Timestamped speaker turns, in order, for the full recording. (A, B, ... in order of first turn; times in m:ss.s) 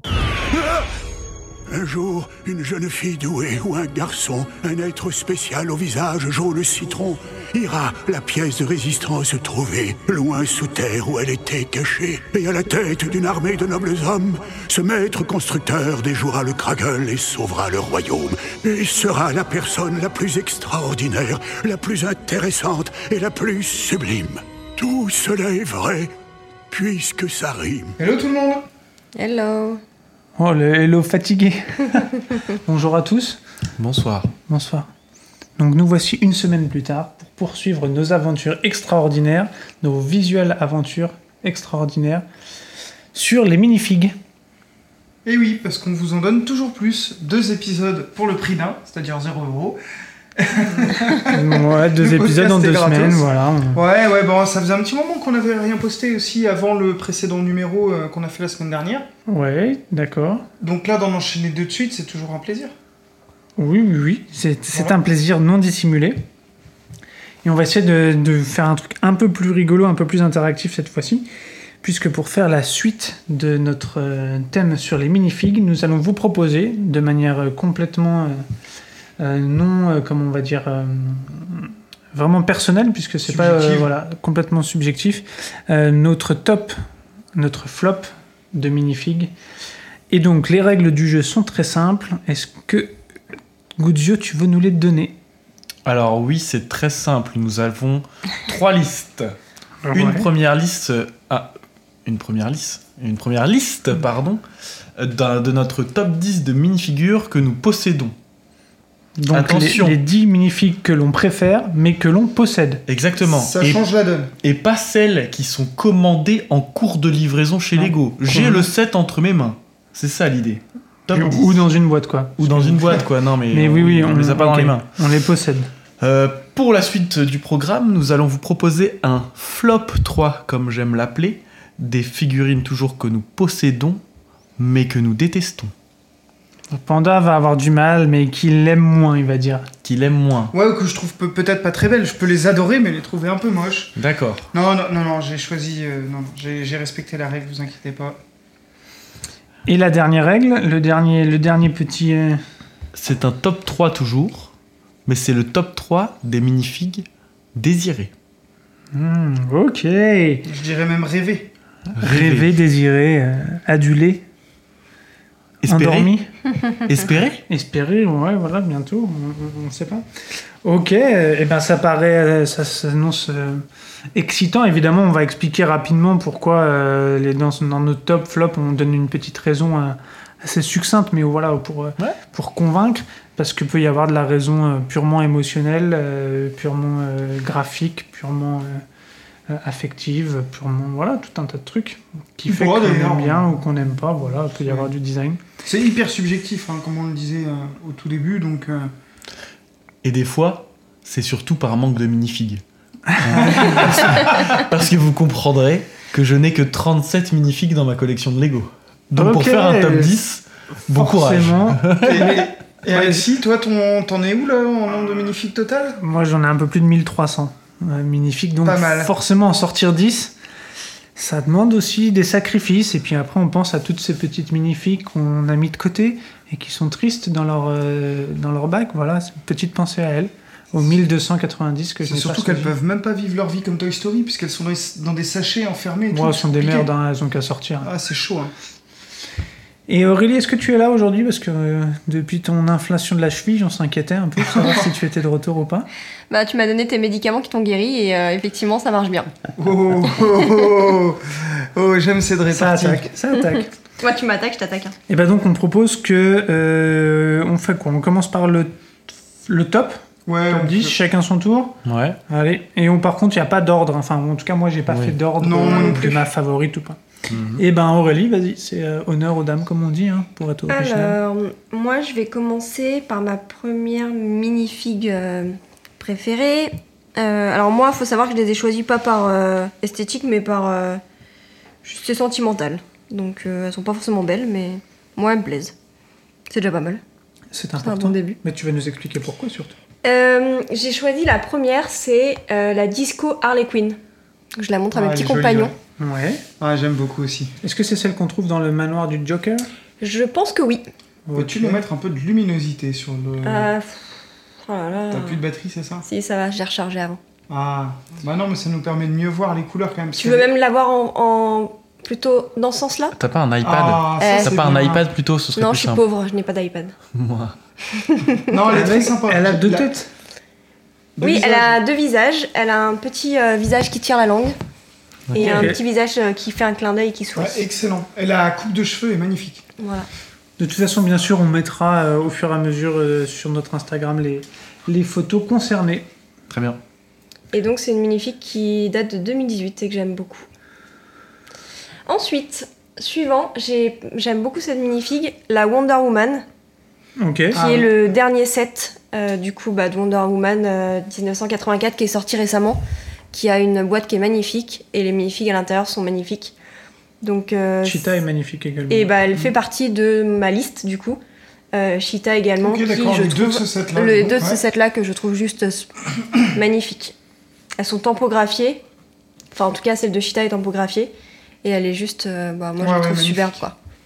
0:01.7-0:26.1 A
0:26.7-0:28.0 A
0:28.0-0:28.7 B
0:29.2-0:29.8 C
0:30.4-0:33.4 D
0:33.8-0:34.3 E
0:34.5-0:34.9 D
0:35.6-0:42.2 D
0:43.1-0:44.1 D
0:45.2-0:49.8 B
0:50.4-0:51.4 B
0:51.2-0:53.8 D
0:52.0-0:59.1 B
0:59.3-1:00.5 D
1:00.6-1:02.7 B
1:03.6-1:06.2 D
1:07.4-1:11.3 D
1:11.8-1:18.4 D
1:19.2-1:26.8 D
1:23.3-1:23.9 B
1:27.4-1:29.3 D
1:30.1-1:32.9 D
1:33.8-1:35.1 D
1:35.9-1:39.3 E
1:39.9-1:40.3 D
1:39.9-1:41.5 E
1:42.0-1:44.4 E
1:45.0-1:48.1 E
1:49.2-1:52.8 D
1:49.3-1:50.0 E
1:52.9-1:53.8 E
1:53.2-1:54.3 B
1:54.4-2:01.7 E
1:57.8-1:58.7 D
2:01.1-2:05.7 D
2:02.4-2:04.8 E
2:06.0-2:14.0 E
2:14.6-2:15.7 E
2:16.7-2:19.7 D
2:19.8-2:20.5 E
2:20.5-2:24.0 B
2:24.0-2:24.5 E
2:24.5-2:28.2 B
2:29.7-2:32.4 D
2:32.9-2:34.5 E
2:35.1-2:37.0 E
2:37.6-2:38.1 E
2:38.9-2:40.5 D
2:40.5-2:41.5 B
2:41.9-2:44.2 D
2:42.0-2:42.5 E
2:45.6-2:46.1 E
2:45.7-2:46.3 D
2:46.8-2:47.4 E
2:47.5-2:50.0 D
2:50.6-2:53.6 D
2:54.2-3:08.8 D
3:09.5-3:15.4 D
3:12.5-3:13.9 B
3:14.6-3:14.9 B
3:15.6-3:18.9 B
3:20.0-3:22.6 E
3:23.1-3:23.8 D
3:23.2-3:32.4 E
3:23.4-3:24.4 B
3:29.2-3:30.2 D
3:31.0-3:32.2 D
3:32.0-3:36.0 B
3:32.9-3:33.2 D
3:36.0-3:40.3 D
3:38.6-3:39.1 B
3:41.2-3:52.7 D
3:52.0-3:56.9 B
3:56.1-3:57.9 D
3:57.8-3:58.5 B
3:59.9-4:05.9 D
4:04.4-4:04.9 B
4:06.3-4:09.3 C
4:09.6-4:13.1 B
4:12.5-4:13.7 D
4:14.0-4:15.0 C
4:15.1-4:18.7 D
4:19.5-4:21.8 D
4:20.3-4:21.0 B
4:21.8-4:22.2 E
4:22.3-4:27.0 D
4:24.9-4:25.1 E
4:25.4-4:26.3 B
4:27.3-4:27.6 E
4:27.6-4:31.2 D
4:30.7-4:41.0 C
4:41.8-4:45.7 C
4:46.5-4:47.0 C
4:47.5-4:49.8 D
4:47.8-4:48.4 C
4:50.0-4:54.0 C
4:54.6-4:55.7 C
4:54.9-4:55.8 B
4:56.0-4:56.4 D
4:56.6-4:57.6 B
4:57.6-4:59.7 D
5:00.0-5:00.8 C
5:01.3-5:01.8 D
5:01.4-5:03.7 B
5:03.4-5:05.4 C
5:05.1-5:06.1 B
5:06.0-5:07.2 C
5:07.5-5:10.5 B
5:10.2-5:13.1 C
5:13.2-5:16.0 E
5:13.6-5:15.1 B
5:14.2-5:14.5 C
5:15.6-5:17.0 C
5:17.2-5:17.6 E
5:18.0-5:18.6 C
5:18.5-5:19.9 B
5:18.7-5:20.1 D
5:21.2-5:21.8 B
5:21.2-5:24.6 C
5:25.3-5:25.7 E
5:25.4-5:27.6 C
5:25.4-5:25.8 D
5:27.4-5:29.7 B
5:29.8-5:30.1 C
5:30.6-5:36.1 D
5:36.5-5:36.8 E
5:37.5-5:40.5 C
5:42.1-5:46.4 C
5:47.2-5:47.6 D
5:47.5-5:48.1 B
5:47.5-5:56.6 C
5:57.2-5:58.1 C
5:57.8-5:59.1 D
5:58.9-6:01.2 C
6:01.7-6:07.2 C
6:02.6-6:04.6 B
6:07.8-6:08.8 C
6:09.5-6:11.1 C
6:11.6-6:13.8 C
6:12.8-6:13.6 B